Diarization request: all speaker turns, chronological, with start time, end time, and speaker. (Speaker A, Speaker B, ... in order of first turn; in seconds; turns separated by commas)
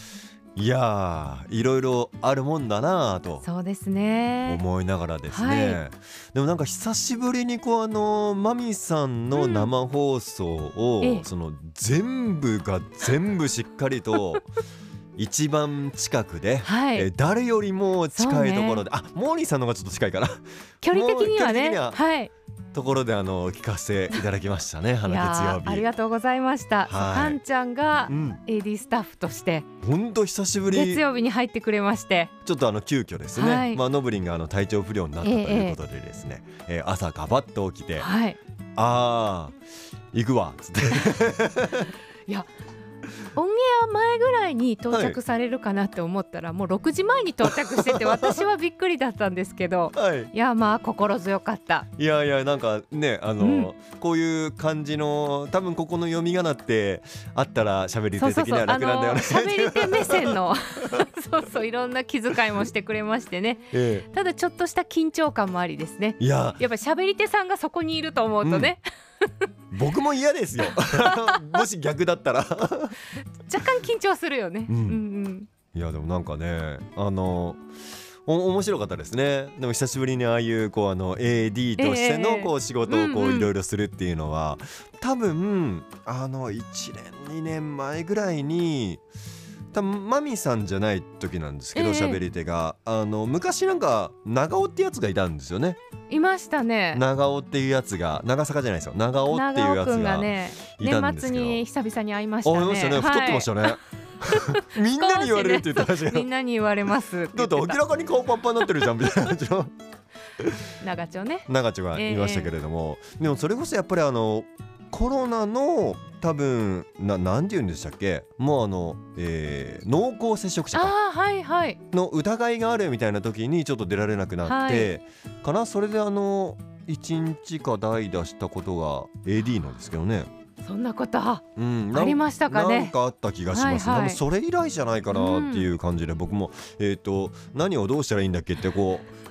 Speaker A: 0.6-3.5, Speaker B: 3.4-4.6, Speaker A: 4.5-14.5, Speaker B: 5.3-5.8, Speaker B: 9.3-9.7, Speaker B: 11.0-11.3, Speaker A: 15.2-22.0, Speaker B: 16.6-17.1, Speaker B: 18.1-18.9, Speaker B: 20.8-22.3, Speaker A: 22.7-25.9, Speaker B: 25.1-29.7, Speaker A: 26.9-27.4, Speaker A: 28.1-28.4, Speaker A: 29.8-31.0, Speaker B: 30.7-32.3, Speaker A: 32.4-38.1, Speaker B: 33.4-33.8, Speaker B: 35.2-35.8, Speaker B: 38.0-38.4, Speaker A: 38.8-39.6, Speaker A: 40.1-41.9, Speaker B: 43.4-51.9, Speaker A: 44.9-45.2, Speaker A: 47.5-48.4, Speaker A: 50.0-50.3, Speaker A: 52.0-61.0, Speaker B: 53.4-53.7, Speaker B: 58.2-69.5, Speaker A: 63.7-64.1, Speaker A: 66.2-66.6, Speaker A: 68.4-68.7, Speaker A: 69.7-73.0, Speaker B: 70.7-71.6, Speaker B: 73.5-75.5, Speaker A: 74.7-75.0, Speaker A: 75.7-77.6, Speaker A: 78.3-89.0, Speaker B: 81.8-83.5, Speaker A: 89.7-95.8, Speaker B: 91.7-92.2, Speaker B: 96.1-97.0, Speaker A: 96.9-101.6, Speaker B: 99.3-103.8, Speaker A: 102.5-106.3, Speaker B: 104.3-107.8, Speaker A: 107.3-109.7, Speaker B: 110.8-112.5, Speaker A: 111.5-120.9, Speaker B: 120.7-121.8, Speaker A: 121.9-130.3, Speaker B: 124.4-124.9, Speaker B: 130.6-132.9, Speaker A: 131.6-139.1, Speaker B: 133.5-134.2, Speaker B: 135.1-135.7